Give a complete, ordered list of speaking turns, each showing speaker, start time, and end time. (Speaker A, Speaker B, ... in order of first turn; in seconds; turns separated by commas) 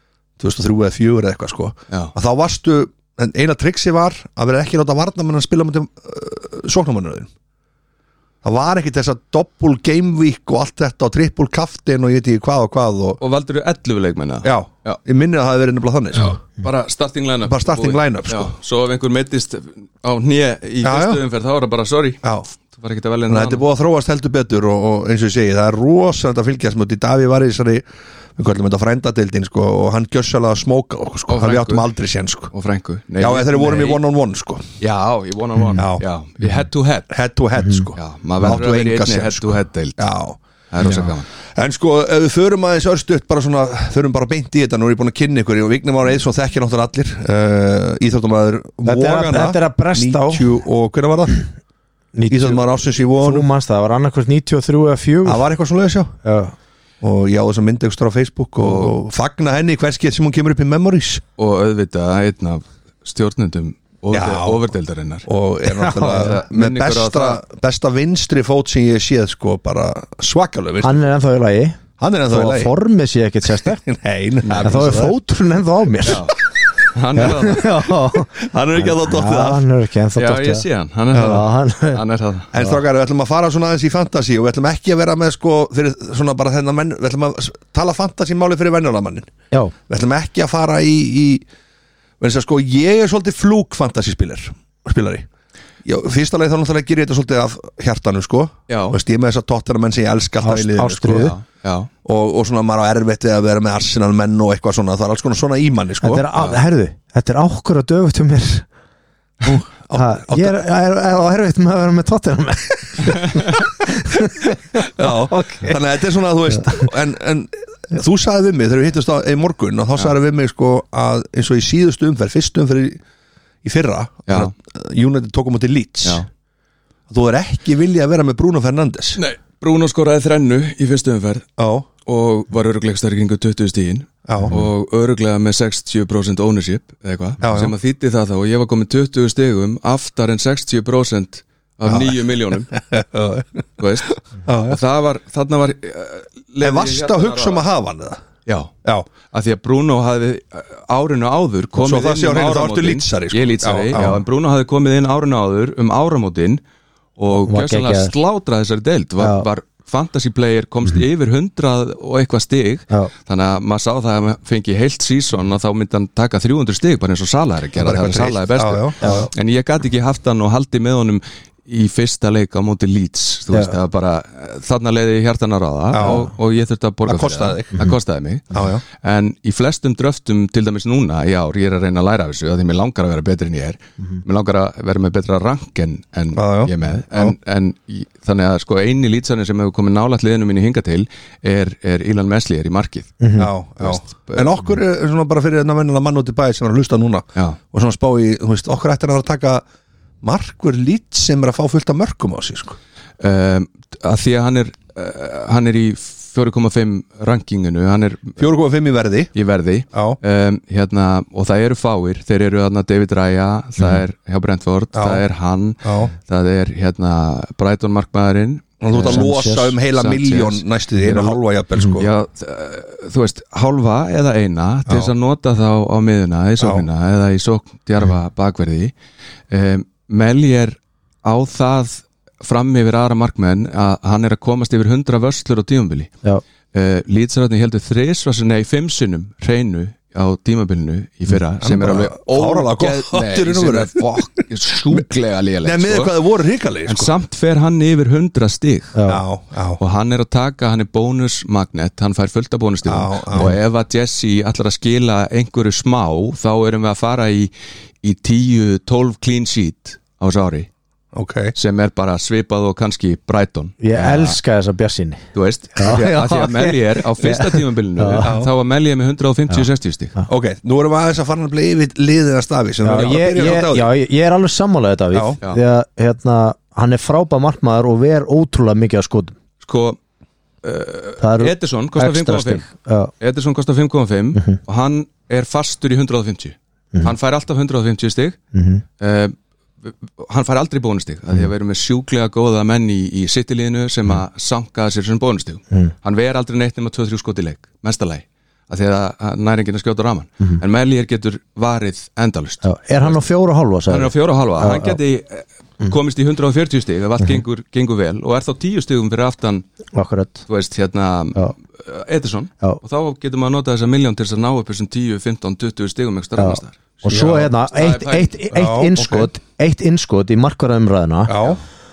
Speaker A: 0.4-7.3, Speaker A: 8.4-13.2, Speaker B: 13.2-15.0, Speaker A: 14.4-16.4, Speaker B: 16.2-23.6, Speaker A: 17.5-18.5, Speaker A: 20.8-21.2, Speaker A: 22.2-22.5, Speaker A: 23.3-27.9, Speaker A: 28.4-32.5, Speaker B: 31.3-31.8, Speaker B: 32.5-34.0, Speaker A: 33.2-34.6, Speaker B: 34.8-37.1, Speaker A: 35.8-36.1, Speaker A: 37.1-40.4, Speaker B: 38.0-40.0, Speaker B: 40.7-41.3, Speaker A: 41.5-51.4, Speaker C: 48.9-50.5, Speaker C: 52.2-55.5, Speaker A: 52.3-53.5, Speaker A: 55.2-56.2, Speaker C: 56.2-56.5, Speaker A: 57.0-61.2, Speaker B: 58.6-58.9, Speaker B: 61.4-65.3, Speaker A: 64.1-64.7, Speaker A: 65.3-71.0, Speaker C: 65.8-66.3, Speaker B: 66.0-67.4, Speaker C: 70.8-73.8, Speaker A: 72.0-72.7, Speaker A: 73.6-75.2, Speaker B: 74.4-74.9, Speaker C: 74.6-76.2, Speaker B: 76.0-77.9, Speaker C: 77.2-82.0, Speaker A: 78.1-79.6, Speaker B: 80.2-82.5, Speaker A: 81.1-81.4, Speaker A: 82.5-89.3, Speaker A: 89.9-91.5, Speaker A: 92.2-95.3, Speaker A: 95.8-101.3, Speaker B: 98.7-99.0, Speaker C: 100.4-101.4, Speaker B: 101.1-101.9, Speaker A: 102.0-106.3, Speaker C: 106.0-108.7, Speaker A: 109.4-110.6, Speaker C: 110.0-115.8, Speaker A: 115.0-123.0, Speaker A: 123.6-126.2, Speaker B: 124.3-124.5, Speaker A: 127.1-129.2, Speaker B: 129.2-131.5, Speaker A: 131.6-131.9, Speaker B: 132.1-142.7, Speaker A: 134.3-134.6, Speaker A: 137.4-137.8, Speaker A: 141.9-142.2, Speaker A: 142.7-143.6, Speaker B: 143.8-147.6, Speaker A: 144.4-144.8, Speaker A: 146.6-148.2, Speaker B: 148.5-148.7, Speaker B: 149.3-156.6, Speaker A: 151.8-154.2, Speaker B: 157.2-193.2, Speaker C: 157.3-158.1, Speaker C: 159.2-159.5, Speaker A: 167.8-169.3, Speaker C: 169.0-169.3, Speaker A: 175.9-176.3, Speaker A: 177.1-177.7, Speaker A: 178.5-178.8, Speaker A: 186.3-187.3, Speaker C: 193.2-193.5, Speaker A: 193.4-199.6, Speaker B: 193.8-194.5, Speaker A: 200.2-202.8, Speaker B: 203.2-208.4, Speaker A: 208.4-209.3, Speaker B: 209.3-219.3, Speaker A: 209.9-210.2, Speaker A: 214.9-215.2, Speaker A: 215.8-216.1, Speaker A: 218.8-222.1, Speaker C: 218.9-219.8, Speaker B: 219.9-221.4, Speaker B: 221.9-228.9, Speaker A: 224.9-225.1, Speaker A: 226.6-226.9, Speaker B: 229.5-236.1, Speaker B: 236.7-246.2, Speaker A: 241.6-244.1, Speaker A: 245.6-247.1, Speaker B: 246.9-249.0, Speaker C: 248.9-249.2, Speaker A: 249.1-249.8, Speaker B: 249.8-257.5, Speaker A: 252.9-253.6, Speaker B: 258.0-260.7, Speaker A: 261.1-261.6, Speaker B: 261.6-264.4, Speaker C: 263.8-265.2, Speaker B: 265.3-270.2, Speaker C: 265.8-268.3, Speaker A: 268.2-268.5, Speaker A: 270.3-273.9, Speaker C: 272.8-279.4, Speaker A: 275.1-275.4, Speaker B: 279.6-280.0, Speaker B: 280.6-288.4, Speaker C: 281.2-283.1, Speaker C: 288.5-288.8, Speaker B: 289.0-303.2, Speaker C: 302.6-305.0, Speaker B: 303.9-309.7, Speaker C: 309.9-310.4, Speaker B: 310.5-318.3, Speaker C: 316.4-321.4, Speaker A: 317.1-317.5, Speaker A: 318.5-319.3, Speaker A: 321.3-321.6